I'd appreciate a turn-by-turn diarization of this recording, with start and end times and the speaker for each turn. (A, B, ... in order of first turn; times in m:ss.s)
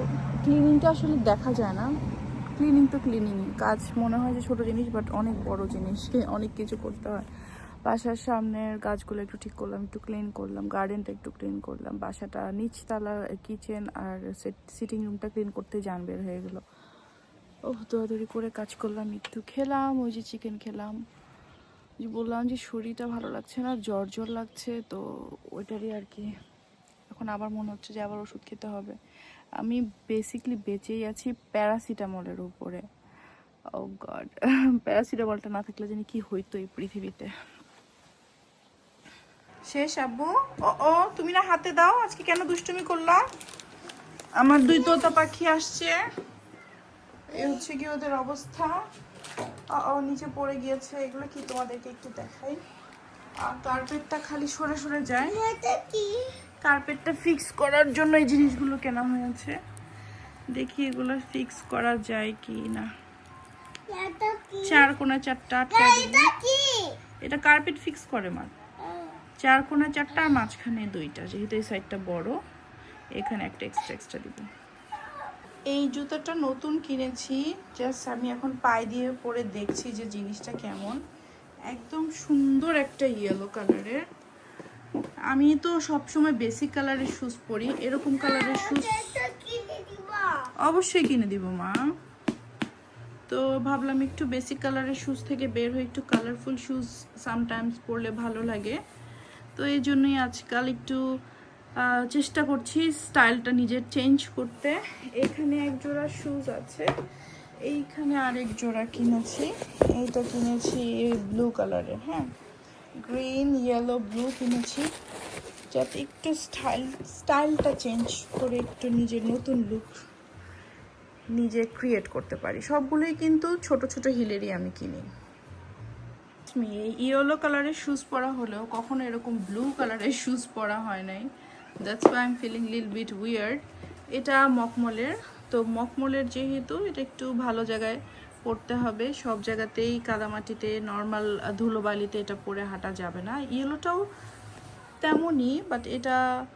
0:00.4-0:01.9 A
0:02.6-0:07.2 A
0:07.8-0:16.6 A
0:17.7-0:21.0 A
0:22.0-0:25.0 A
0:25.5-0:26.3 A
0:27.1-0:29.0 A
0:29.6-0:32.8 A
0:33.7-0:37.3 A
0:39.7-0:43.2 A
0:44.4-0:46.0 A
0:47.3-0:48.7 A
0:47.3-0:47.6 B
0:49.7-0:52.6 A
0:53.4-0:55.4 A
0:55.2-0:56.4 B
0:56.6-0:59.6 A
1:00.5-1:02.9 A
1:03.9-1:04.9 B
1:04.6-1:06.3 A
1:05.7-1:07.0 B
1:07.2-1:08.5 A
1:08.8-1:09.2 B
1:09.4-1:12.4 A
1:13.2-1:14.5 A
1:15.7-1:21.0 A
1:21.7-1:24.0 A
1:25.3-1:29.1 A
1:28.2-1:30.5 B
1:30.6-1:31.8 A
1:33.3-1:38.8 A
1:39.5-1:41.0 A
1:41.8-1:46.9 A
1:47.7-1:52.3 A
1:53.0-1:54.9 A
1:55.7-1:59.9 A
2:01.3-2:05.1 A
2:06.5-2:11.3 A
2:11.8-2:13.6 A
2:14.1-2:24.0 A
2:25.0-2:26.2 A